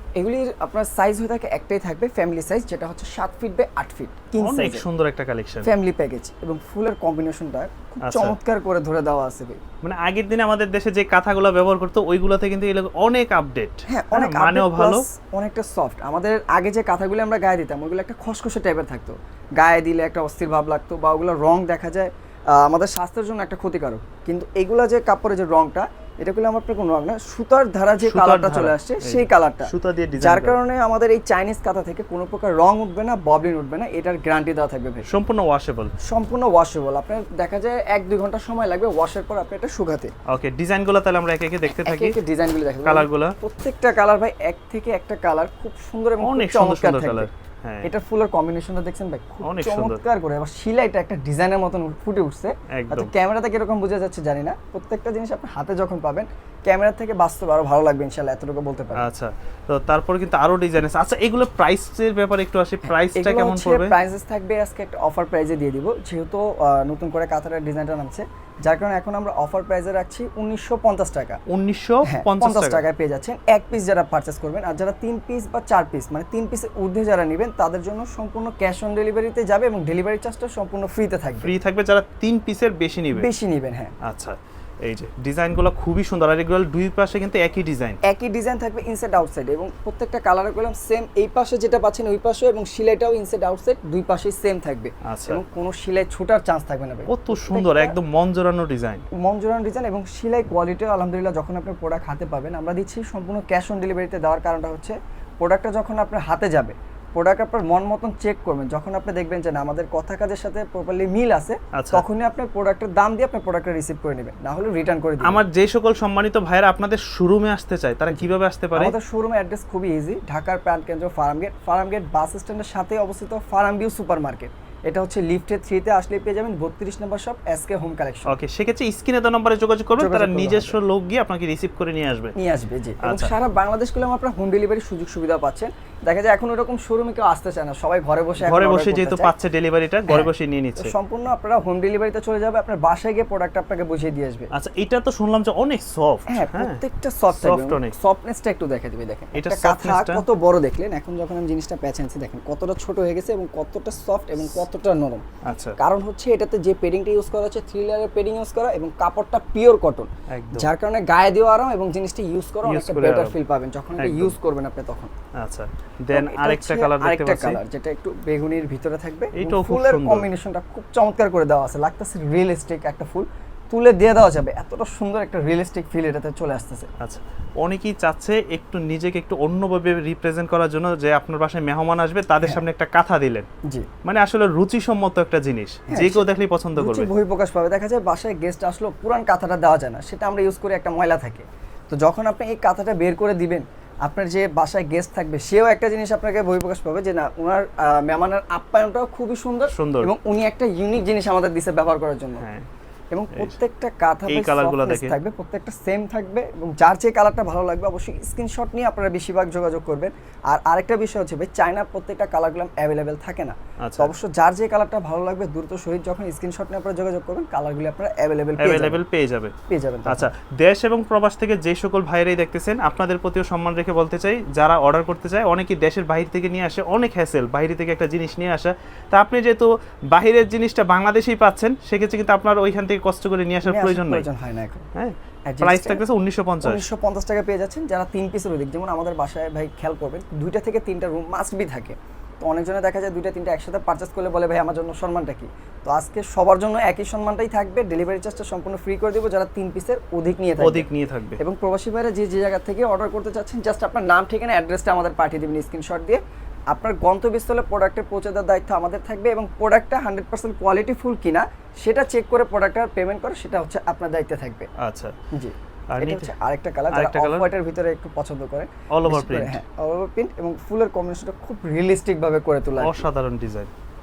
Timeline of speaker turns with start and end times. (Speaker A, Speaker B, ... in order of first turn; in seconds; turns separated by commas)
Speaker A: 0.2-4.8, Speaker B: 4.4-5.7, Speaker A: 5.6-9.6, Speaker B: 8.1-8.4, Speaker B: 9.8-15.0, Speaker A: 13.9-35.1, Speaker B: 28.0-30.6, Speaker B: 35.0-35.9, Speaker A: 36.0-40.1, Speaker B: 40.3-42.2, Speaker A: 41.7-47.3, Speaker B: 42.8-43.3, Speaker B: 46.2-47.9, Speaker A: 47.8-59.0, Speaker B: 49.4-50.0, Speaker B: 52.8-53.1, Speaker B: 59.0-64.0, Speaker A: 62.9-71.4, Speaker B: 71.5-72.8, Speaker A: 72.0-81.5, Speaker B: 81.4-83.3, Speaker A: 83.1-83.9, Speaker B: 84.0-88.0, Speaker A: 88.0-98.0, Speaker B: 95.0-95.4, Speaker B: 97.1-99.0, Speaker A: 99.1-115.4, Speaker B: 111.7-112.0, Speaker B: 115.2-118.9, Speaker A: 118.1-128.4, Speaker B: 128.2-132.3, Speaker A: 130.0-130.8, Speaker A: 132.3-139.3, Speaker B: 133.0-133.3, Speaker B: 138.4-140.9, Speaker A: 140.1-144.5, Speaker B: 144.5-146.8, Speaker A: 146.3-155.2, Speaker B: 147.3-147.9, Speaker B: 149.3-150.2, Speaker B: 155.4-155.8, Speaker A: 155.8-165.1, Speaker B: 160.3-160.7, Speaker B: 162.6-163.3, Speaker B: 164.0-164.3, Speaker B: 165.4-167.6, Speaker A: 166.1-176.9, Speaker B: 169.3-170.3, Speaker B: 177.0-183.4, Speaker B: 184.0-187.1, Speaker A: 185.9-202.4, Speaker B: 199.7-200.1, Speaker B: 202.4-202.7, Speaker A: 203.1-219.0, Speaker B: 204.3-205.2, Speaker B: 213.8-214.1, Speaker B: 218.6-219.5, Speaker A: 219.7-220.3, Speaker B: 220.1-234.2, Speaker A: 233.6-234.9, Speaker B: 234.9-236.8, Speaker A: 235.5-236.0, Speaker A: 236.6-264.7, Speaker B: 250.6-251.4, Speaker B: 264.8-265.1, Speaker A: 265.3-273.0, Speaker B: 265.9-266.3, Speaker B: 266.9-267.5, Speaker B: 268.9-269.6, Speaker B: 272.8-273.7